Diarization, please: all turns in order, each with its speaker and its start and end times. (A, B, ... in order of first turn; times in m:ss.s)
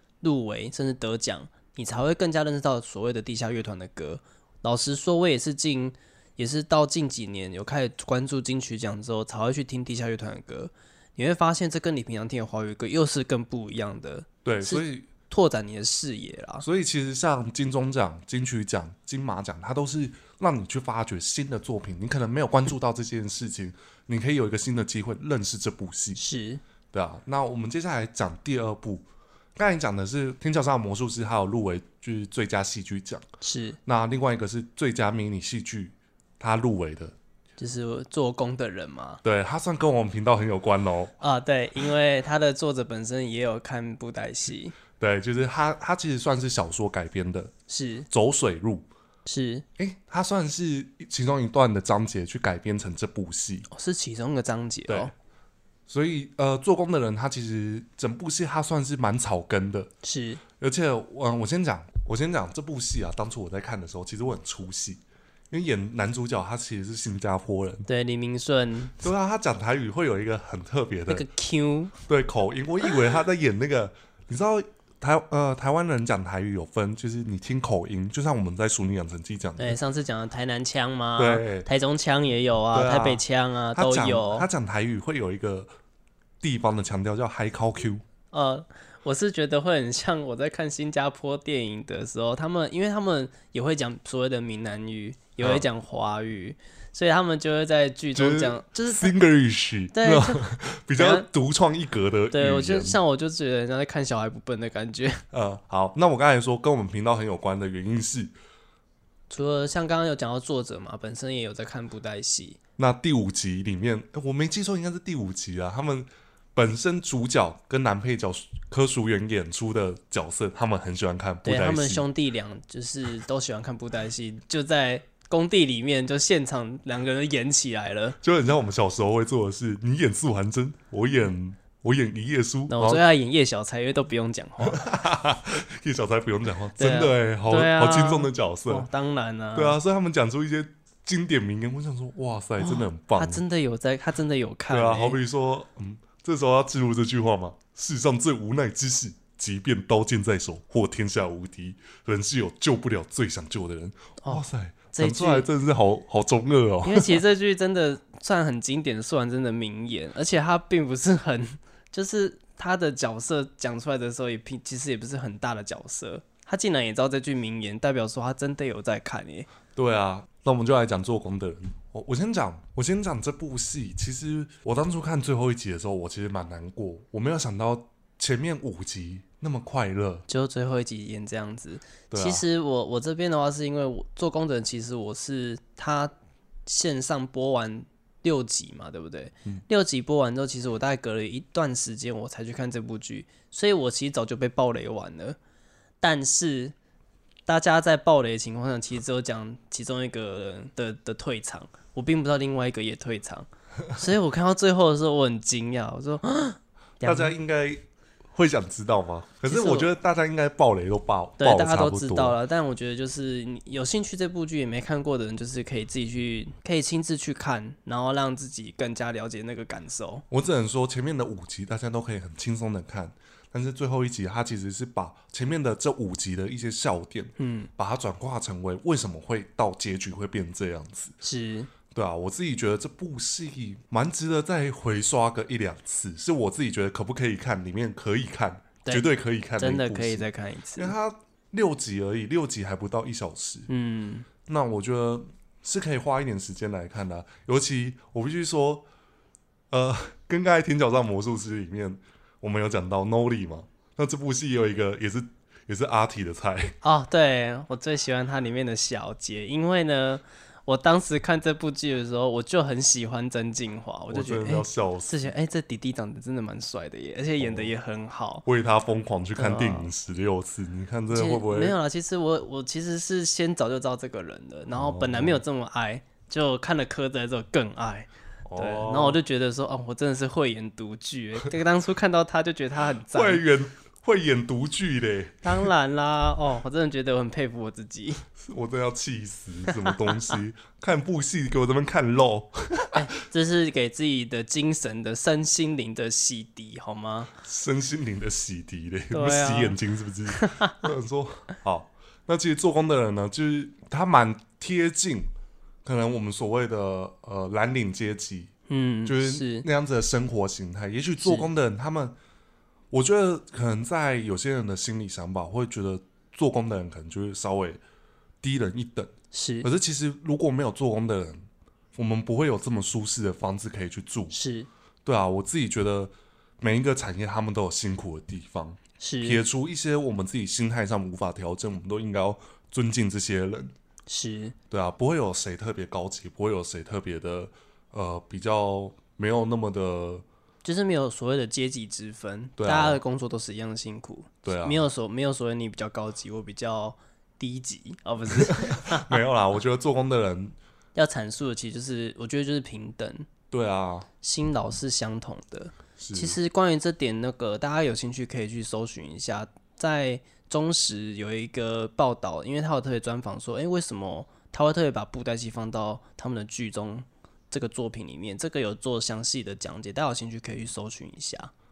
0:00.2-0:16.6 A
0:14.4-0:15.1 B
0:16.6-0:26.2 B
0:26.2-0:26.6 A
0:26.9-0:29.0 B
0:29.6-0:33.2 B
0:33.4-0:33.8 A
0:33.8-0:37.2 B
0:37.6-0:39.2 A
0:39.2-0:41.1 B
0:41.2-0:44.7 A
0:45.0-0:47.5 B
0:47.7-0:48.1 A
0:48.1-0:48.9 B
0:49.2-0:49.6 A
0:49.8-0:53.7 B
0:53.7-0:55.1 A
0:55.9-0:59.9 B
1:00.0-1:00.4 A
1:00.6-1:07.9 B
1:07.9-1:09.0 A
1:09.0-1:11.3 B
1:11.1-1:11.9 A
1:12.1-1:19.8 B
1:19.6-1:24.5 A
1:21.2-1:21.7 B
1:22.7-1:25.7 B
1:26.4-1:28.0 B
1:28.3-1:39.1 A
1:38.1-1:43.0 B
1:39.9-1:40.4 A
1:41.0-1:41.3 A
1:42.3-1:45.2 A
1:45.3-1:48.3 B
1:49.3-1:52.6 A
1:52.8-2:02.0 B
2:01.4-2:08.2 A
2:08.2-2:13.0 B
2:12.7-2:14.8 A
2:14.6-2:18.9 B
2:16.8-2:19.8 A
2:19.5-2:23.4 B
2:22.6-2:25.2 A
2:24.7-2:37.2 B
2:34.2-2:35.5 A
2:36.8-2:49.5 A
2:49.8-3:00.2 B
3:00.3-3:06.1 A
3:02.1-3:02.4 B
3:06.6-3:15.4 A
3:16.0-3:16.7 A
3:17.4-3:27.3 A
3:27.0-3:32.4 B
3:29.5-3:29.9 A
3:31.4-3:40.2 A
3:40.3-3:51.1 B
3:47.4-3:47.7 A
3:51.2-3:51.7 A
3:51.9-4:03.7 B
3:59.6-4:00.9 A
4:03.7-4:04.3 A
4:04.4-4:08.8 B
4:09.7-4:16.8 B
4:16.8-4:28.4 A
4:24.1-4:25.3 B
4:27.4-4:27.7 B
4:28.4-4:31.8 B
4:29.4-4:29.9 A
4:31.1-4:43.4 A
4:34.7-4:35.4 B
4:38.4-4:39.2 B
4:43.1-4:45.7 B
4:45.4-4:48.2 A
4:48.4-4:53.0 B
4:49.8-4:50.3 A
4:52.9-4:57.3 A
4:57.4-5:05.3 B
4:59.1-4:59.8 A
5:00.3-5:00.8 A
5:05.8-5:08.5 B
5:08.7-5:09.6 A
5:09.0-5:12.2 B
5:11.2-5:11.5 A
5:12.9-5:17.8 B
5:18.4-5:21.4 B
5:19.3-5:19.7 A
5:22.0-5:24.3 B
5:24.3-5:24.7 A
5:25.0-5:33.7 B
5:29.0-5:29.4 A
5:34.1-5:34.5 A
5:34.7-5:40.2 B
5:40.6-5:49.2 A
5:42.6-5:43.0 B
5:44.4-5:44.8 B
5:48.3-5:50.6 B
5:50.9-5:53.3 A
5:53.5-5:54.1 B
5:54.2-6:11.5 A
5:56.0-5:56.4 B